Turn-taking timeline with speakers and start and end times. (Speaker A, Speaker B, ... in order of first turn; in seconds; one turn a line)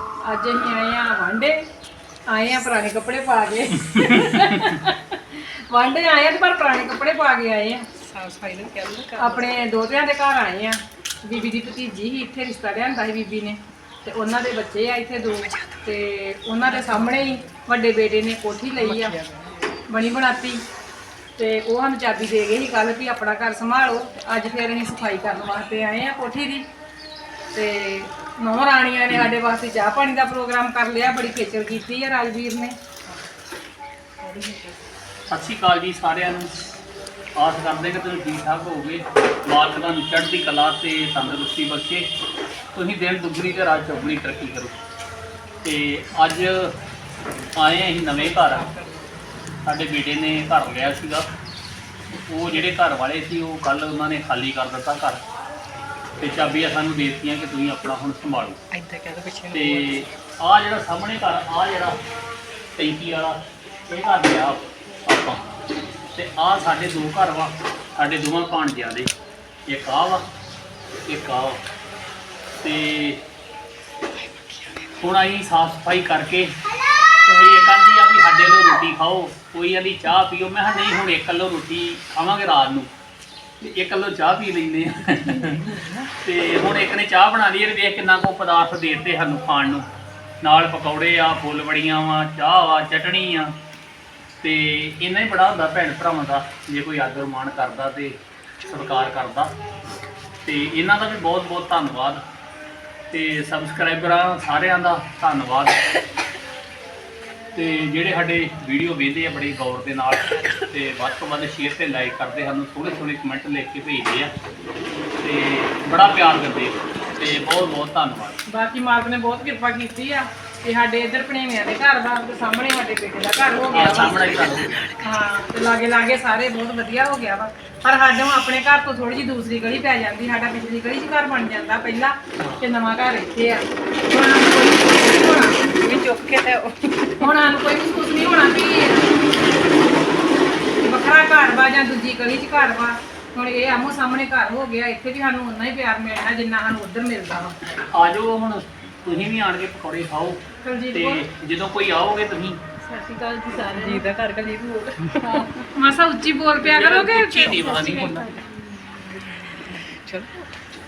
Speaker A: 0.2-1.6
Speaker A: 2.3-7.8
Speaker B: 3.9-4.8
Speaker C: 8.0-9.4
Speaker A: 9.2-19.2
Speaker C: 16.8-17.1
Speaker C: 18.8-19.7
Speaker A: 19.9-20.6
Speaker A: 21.4-26.6
Speaker A: 27.5-32.7
Speaker C: 34.2-34.8
Speaker B: 35.3-36.5
Speaker B: 37.4-42.1
Speaker B: 42.7-44.8
Speaker B: 45.6-46.7
Speaker B: 47.5-48.7
Speaker C: 48.4-49.1
Speaker B: 49.6-51.3
Speaker B: 52.2-55.2
Speaker B: 56.2-58.6
Speaker C: 58.7-60.0
Speaker B: 59.5-62.0
Speaker B: 62.8-65.4
Speaker B: 66.1-69.1
Speaker B: 69.7-70.2
Speaker B: 71.0-71.6
Speaker B: 72.6-73.2
Speaker C: 74.4-74.8
Speaker B: 75.0-76.5
Speaker B: 77.1-82.9
Speaker B: 83.6-89.8
Speaker C: 85.5-86.0
Speaker B: 90.4-93.5
Speaker B: 94.4-99.5
Speaker B: 100.4-102.2
Speaker B: 103.1-105.7
Speaker B: 107.5-114.3
Speaker B: 115.2-118.4
Speaker A: 118.5-135.7
Speaker B: 123.7-125.0
Speaker C: 135.7-137.2
Speaker A: 137.2-139.1
Speaker A: 140.8-147.6
Speaker B: 147.7-150.4
Speaker A: 150.6-151.2
Speaker B: 150.9-152.6
Speaker C: 152.8-155.6
Speaker A: 155.2-158.4
Speaker B: 156.6-158.3
Speaker C: 158.3-160.4